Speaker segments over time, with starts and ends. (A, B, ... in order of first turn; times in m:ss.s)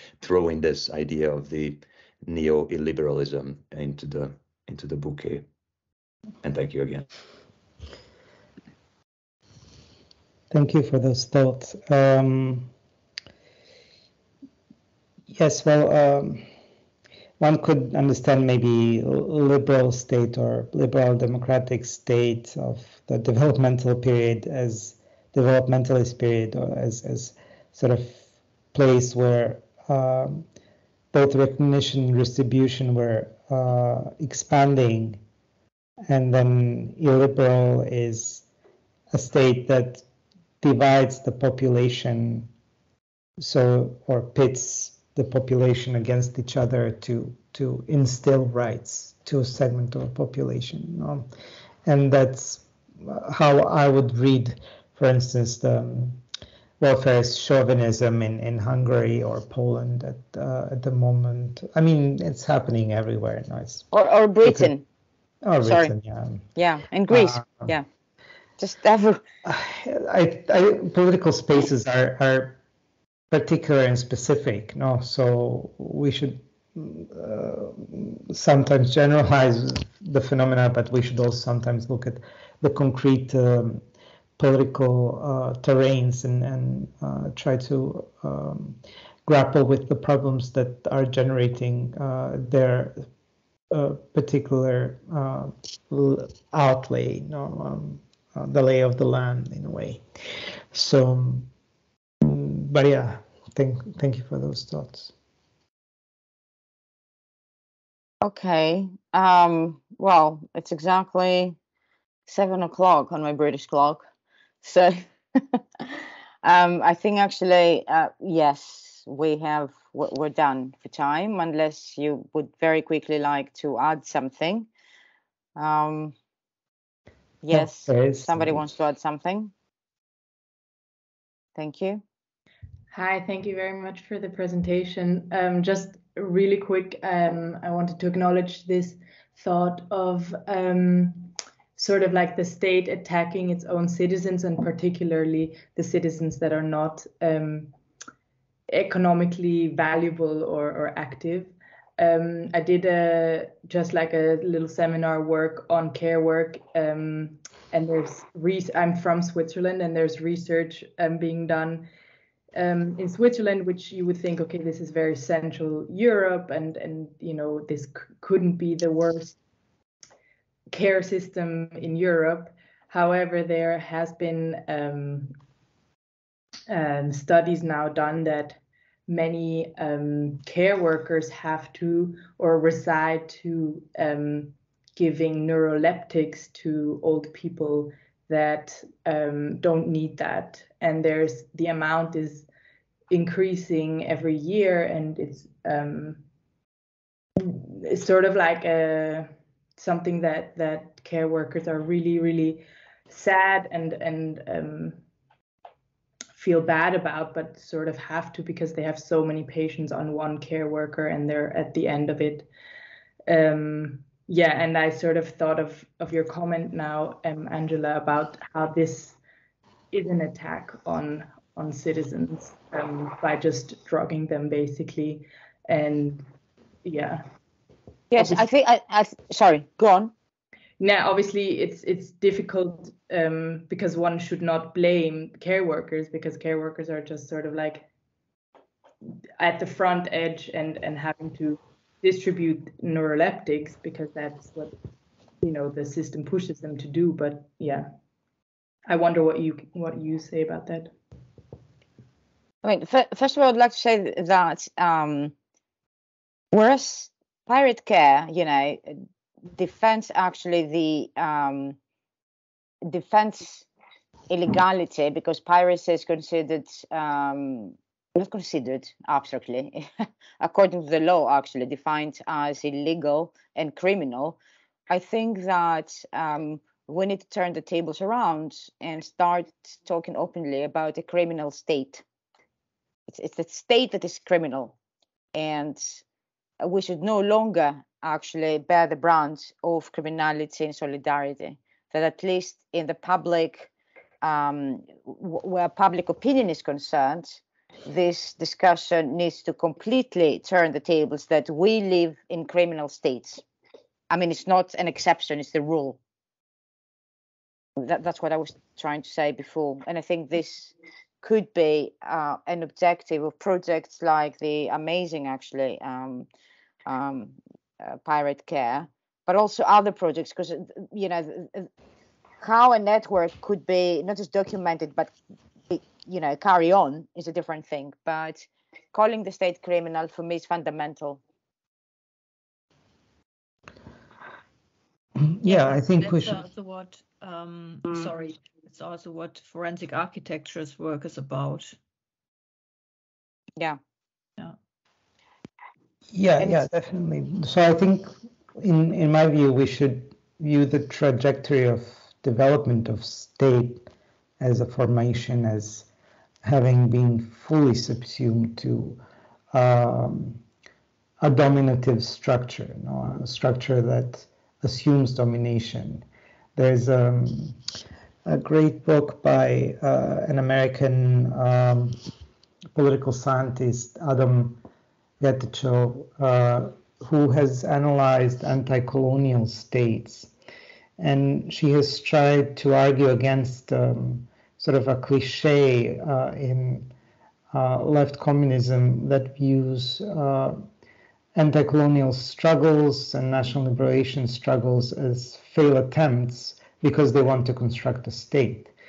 0:00.2-0:05.4 A
0:06.4-0:07.0 A
0:10.5-0:12.7 B
0:15.3-0:16.4 B
0:17.4-0:30.4 B
0:31.1-0:35.2 B
0:36.1-0:38.4 B
0:39.1-0:40.0 B
0:40.6-0:42.5 B
0:43.4-0:51.3 B
0:51.8-0:56.2 B
0:56.8-1:03.9 B
1:03.9-1:04.8 C
1:04.4-1:04.7 B
1:05.4-1:06.4 B
1:05.6-1:05.9 C
1:06.6-1:07.8 C
1:07.1-1:07.7 B
1:08.6-1:09.2 C
1:09.4-1:12.6 B
1:13.3-1:23.8 B
1:24.4-1:33.0 B
1:33.7-1:40.0 B
1:40.7-1:41.5 B
1:42.2-1:45.1 B
1:48.2-1:51.6 C
1:52.3-1:54.0 C
1:54.6-2:04.7 C
2:05.6-2:06.2 C
2:07.4-2:09.5 C
2:07.5-2:08.7 B
2:11.6-2:12.0 C
2:12.9-2:27.7 D
2:28.7-2:41.9 D
2:42.5-2:49.4 D
2:50.7-2:55.3 D
2:56.7-3:12.5 D
3:13.1-3:16.2 D
3:17.4-3:25.0 D
3:26.3-3:32.5 D
3:33.3-3:39.2 D
3:39.9-3:46.2 D
3:46.8-3:47.2 D
3:48.1-3:50.1 C
3:48.2-3:48.4 D
3:50.8-3:57.9 D
3:59.4-4:04.7 D
4:05.4-4:07.9 D
4:08.9-4:10.9 D
4:12.6-4:15.3 C
4:16.5-4:19.0 C
4:19.6-4:21.8 C
4:22.9-4:23.7 C
4:24.3-4:29.9 C
4:30.4-4:34.4 C
4:34.9-4:42.0 C
4:43.1-4:44.8 C
4:45.3-4:46.0 C
4:46.6-4:53.7 C
4:54.2-5:03.4 C
5:04.1-5:06.0 C
5:07.8-5:16.3 C
5:16.9-5:21.7 C
5:22.4-5:25.1 C
5:25.7-5:31.2 C
5:35.2-5:36.4 B
5:35.4-5:41.7 E
5:46.1-5:53.9 B
5:54.4-5:55.9 B
5:56.4-5:59.0 B
5:59.5-6:00.4 B
6:01.2-6:06.0 B
6:06.6-6:07.6 B
6:08.2-6:12.0 B
6:12.7-6:14.6 B
6:15.2-6:20.3 B
6:21.0-6:26.9 B
6:27.5-6:30.6 B
6:31.3-6:38.7 B